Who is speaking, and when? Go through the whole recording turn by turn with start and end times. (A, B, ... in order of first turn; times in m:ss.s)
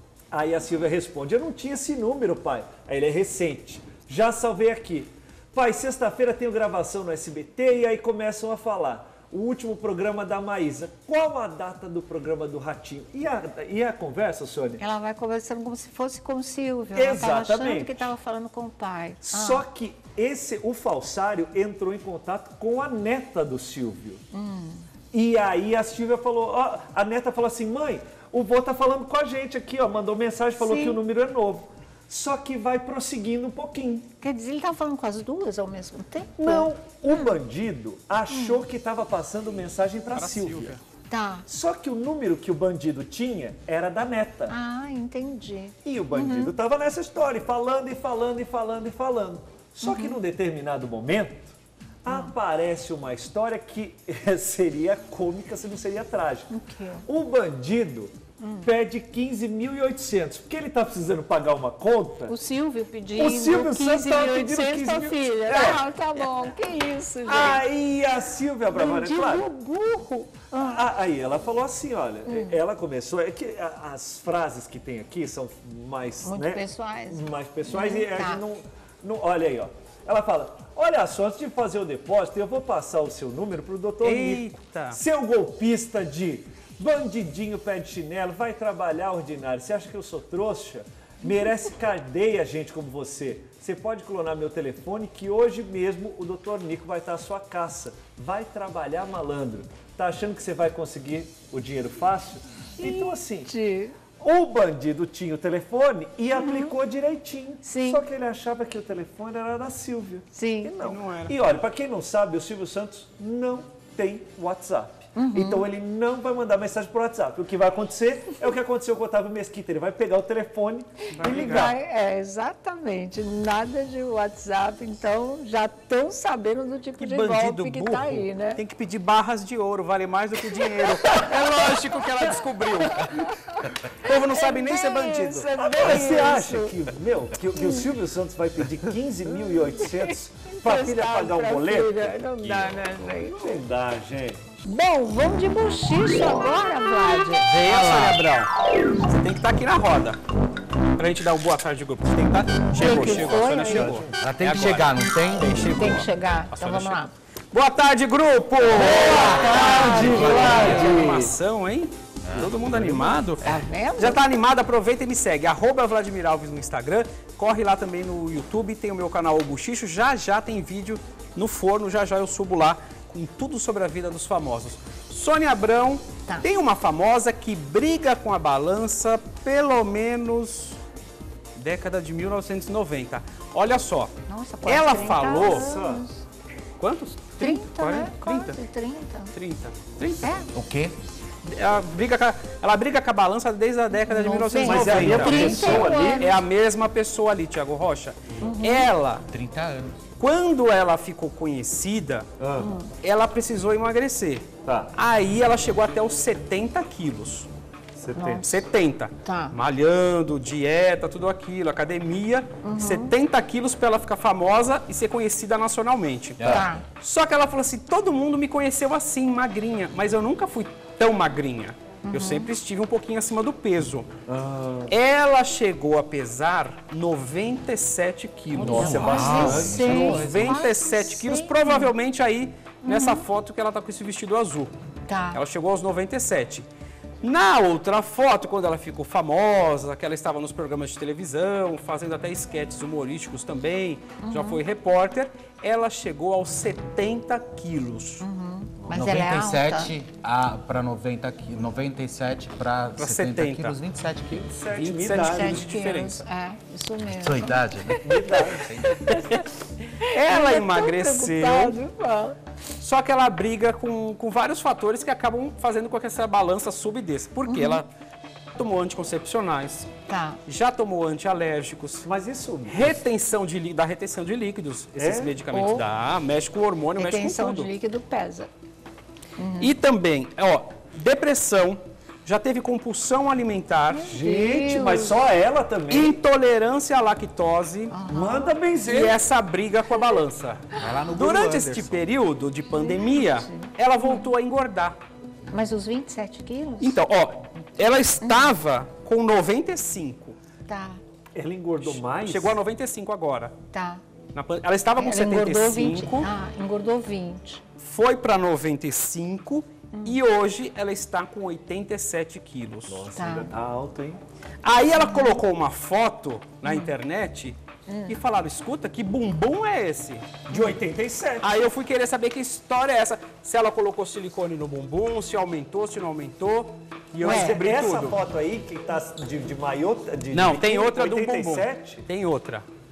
0:00.3-0:14.8 A
0:14.8-0:19.6 B
0:17.0-0:18.1 A
0:19.2-0:24.2 A
0:24.3-0:24.8 B
0:25.1-0:34.1 A
0:30.6-0:31.0 B
0:34.2-0:37.3 B
0:36.4-0:40.8 A
0:38.3-0:38.6 B
0:40.1-0:40.8 C
0:41.1-0:41.5 B
0:41.5-0:44.5 A
0:44.5-0:46.5 B
0:45.8-0:56.5 A
0:49.8-0:50.2 B
0:52.1-0:52.3 B
0:56.5-0:57.1 B
0:57.1-1:02.4 A
0:58.4-0:58.7 B
1:02.3-1:07.6 B
1:03.1-1:05.8 A
1:07.3-1:09.5 A
1:08.7-1:10.8 B
1:10.5-1:43.5 A
1:12.3-1:12.6 B
1:16.2-1:18.4 B
1:24.0-1:25.0 C
1:42.8-1:44.0 B
1:44.2-2:01.8 A
1:46.4-1:46.7 B
1:47.6-1:48.0 B
1:50.3-1:50.7 B
1:50.8-1:51.4 C
1:55.2-1:55.7 B
2:01.1-2:01.7 C
2:01.3-2:08.6 B
2:07.0-2:13.3 C
2:13.0-2:16.8 B
2:14.0-2:16.1 C
2:15.6-2:22.2 A
2:17.6-2:17.9 B
2:19.8-2:23.6 B
2:22.4-2:23.0 D
2:23.3-2:24.4 A
2:24.7-2:27.5 B
2:27.4-2:28.5 C
2:27.6-2:28.2 D
2:29.0-2:30.2 C
2:31.0-2:37.0 C
2:32.8-2:33.9 B
2:32.9-2:34.1 A
2:34.2-2:35.8 D
2:35.8-2:37.1 B
2:37.5-3:00.8 C
2:38.8-2:41.4 A
2:38.8-2:41.2 B
2:38.8-2:41.0 D
2:42.2-2:43.6 D
2:43.4-2:44.2 B
3:01.6-3:04.1 C
3:04.3-3:06.2 B
3:04.7-3:05.7 C
3:05.3-3:06.0 A
3:06.8-3:08.6 C
3:07.4-3:09.3 B
3:09.3-3:10.2 C
3:10.2-3:10.5 B
3:10.5-3:11.0 D
3:11.5-3:19.2 C
3:14.0-3:16.4 B
3:14.6-3:16.3 A
3:14.7-3:15.9 D
3:18.4-3:18.9 B
3:19.3-3:20.0 D
3:20.2-3:22.3 C
3:22.4-3:22.7 A
3:22.6-3:22.9 B
3:23.0-3:27.5 C
3:28.0-3:28.6 A
3:28.2-3:28.5 B
3:28.4-3:44.1 C
3:29.2-3:29.6 B
3:32.6-3:33.1 B
3:36.4-3:36.7 D
3:36.5-3:36.8 B
3:42.0-3:42.5 B
3:44.3-3:44.9 A
3:44.9-3:54.8 C
3:48.5-3:50.3 A
3:48.6-3:50.7 D
3:48.8-3:51.9 B
3:52.8-3:53.2 B
3:55.1-3:55.4 B
3:55.3-3:56.7 C
3:57.2-4:08.2 C
4:04.2-4:04.6 B
4:08.2-4:09.9 B
4:08.8-4:14.5 D
4:13.0-4:13.8 C
4:14.5-4:15.8 A
4:14.7-4:16.3 C
4:15.3-4:19.4 B
4:17.0-4:19.2 D
4:18.0-4:18.7 A
4:20.0-4:21.8 C
4:20.0-4:22.4 B
4:22.8-4:27.9 C
4:27.5-4:27.8 B
4:28.6-4:29.9 C
4:30.1-4:30.4 B
4:30.5-4:32.1 C
4:32.0-4:33.0 A
4:32.7-4:37.7 C
4:35.0-4:35.3 A
4:35.5-4:35.8 B
4:37.0-4:38.5 B
4:39.4-4:39.7 B
4:39.6-4:44.1 C
4:43.9-4:45.1 B
4:44.0-4:46.2 A
4:45.9-4:48.0 C
4:47.9-4:49.0 B
4:48.0-4:49.2 A
4:48.8-4:55.0 C
4:50.8-4:52.0 D
4:52.7-4:54.3 B
4:55.5-4:57.0 B
4:56.8-5:00.4 C
4:58.2-4:58.5 B
5:00.7-5:01.0 B
5:01.4-5:02.6 A
5:01.8-5:03.5 C
5:03.7-5:04.0 B
5:04.3-5:06.3 C
5:05.0-5:07.6 B
5:07.8-5:13.1 C
5:09.9-5:10.2 B
5:12.9-5:14.2 A
5:13.1-5:13.5 B
5:14.6-5:17.6 C
5:14.9-5:15.4 B
5:16.6-5:16.9 B
5:17.9-5:18.2 B
5:18.1-5:20.5 C
5:20.5-5:21.5 A
5:21.4-5:28.2 C
5:27.2-5:32.0 A
5:27.2-5:27.6 B
5:30.3-5:32.7 C